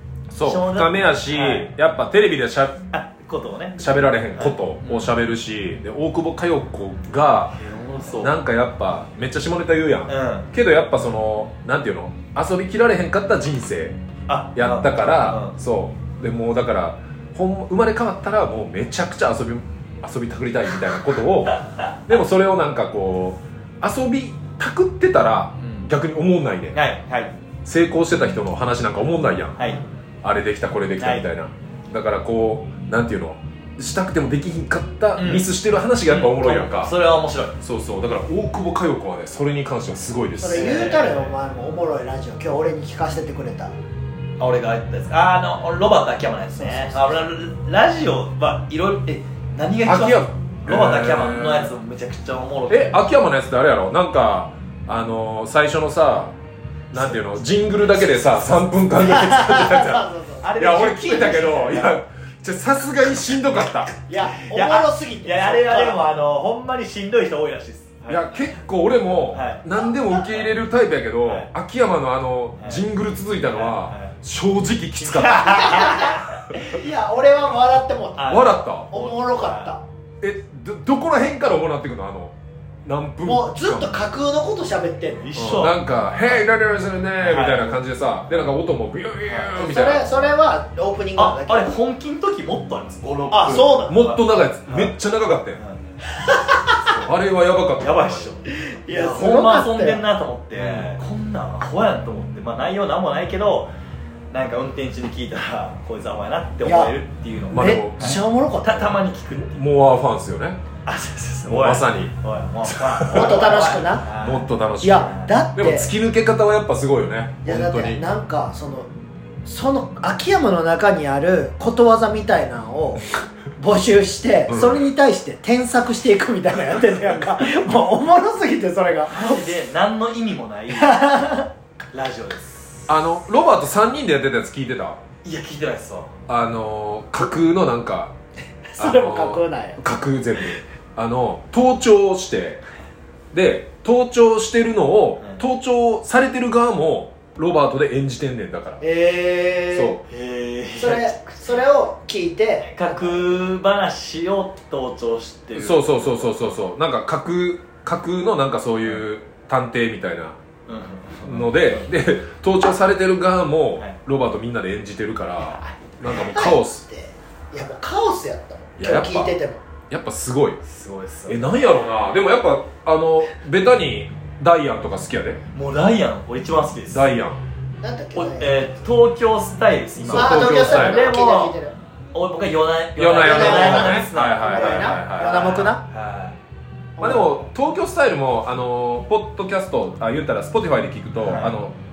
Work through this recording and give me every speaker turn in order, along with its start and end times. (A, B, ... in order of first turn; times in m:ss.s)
0:00.3-0:02.9 A
0:00.4-0:01.7 B
0:02.9-0:03.8 B
0:03.8-0:07.6 A
0:04.3-0:05.1 B
0:07.6-0:08.4 B
0:08.1-0:14.0 A
0:10.1-0:10.5 B
0:14.3-0:15.6 B
0:14.5-0:26.8 A
0:21.5-0:22.0 B
0:25.6-0:25.9 B
0:26.7-0:27.3 B
0:27.6-0:29.6 A
0:29.6-0:29.8 B
0:30.2-0:37.0 A
0:31.0-0:31.2 B
0:35.2-0:35.5 B
0:36.1-0:37.6 B
0:37.6-0:40.8 A
0:40.4-0:43.8 C
0:40.5-0:41.3 B
0:44.4-0:53.0 B
0:46.6-0:47.1 C
0:49.8-0:51.7 A
0:52.7-0:56.4 A
0:56.9-1:04.0 A
0:57.0-0:57.3 B
0:59.0-1:00.6 C
1:00.4-1:02.0 B
1:04.1-1:06.1 C
1:04.4-1:08.5 B
1:08.1-1:16.6 A
1:09.3-1:10.5 B
1:11.2-1:11.5 B
1:12.6-1:12.8 B
1:13.5-1:14.2 B
1:15.0-1:16.8 B
1:15.4-1:19.8 C
1:18.2-1:19.8 B
1:18.3-1:18.9 A
1:20.2-1:24.0 A
1:23.2-1:25.4 C
1:25.2-1:26.4 B
1:25.4-1:30.3 A
1:27.2-1:27.8 B
1:29.3-1:29.5 B
1:29.5-1:31.8 C
1:31.2-1:34.9 B
1:33.3-1:34.0 C
1:33.9-1:35.6 A
1:36.3-1:36.8 C
1:36.9-1:38.4 A
1:37.8-1:43.7 B
1:38.6-1:40.0 C
1:40.6-1:41.0 A
1:44.3-1:49.5 B
1:46.6-1:46.9 C
1:47.5-1:48.2 A
1:47.5-1:49.0 C
1:49.4-1:50.6 A
1:50.9-1:55.3 B
1:51.5-1:53.5 A
1:53.0-1:54.1 C
1:54.2-1:58.0 A
1:54.8-1:55.9 C
1:57.4-1:58.9 C
1:59.4-2:09.5 C
2:04.5-2:04.8 A
2:09.1-2:11.0 B
2:10.7-2:11.5 C
2:11.9-2:13.0 B
2:12.9-2:15.0 A
2:15.2-2:16.2 B
2:16.3-2:18.1 A
2:18.7-2:19.8 C
2:18.8-2:22.6 A
2:23.3-2:28.8 A
2:28.8-2:30.0 C
2:29.7-2:30.0 A
2:30.1-2:31.5 B
2:30.8-2:33.4 C
2:32.6-2:36.3 B
2:35.6-2:40.4 A
2:40.7-2:41.9 B
2:41.2-2:46.8 A
2:45.5-2:46.2 B
2:46.2-2:49.6 C
2:48.8-2:49.3 A
2:49.9-2:50.6 A
2:50.6-2:51.6 B
2:51.3-2:55.4 A
2:55.5-2:57.1 B
2:56.9-2:57.4 A
2:57.8-2:58.8 C
2:58.1-3:01.6 B
3:00.0-3:01.2 A
3:00.1-3:01.7 C
3:02.1-3:06.4 B
3:03.0-3:05.7 A
3:03.2-3:05.8 C
3:07.0-3:07.4 C
3:07.0-3:11.8 A
3:11.2-3:11.5 B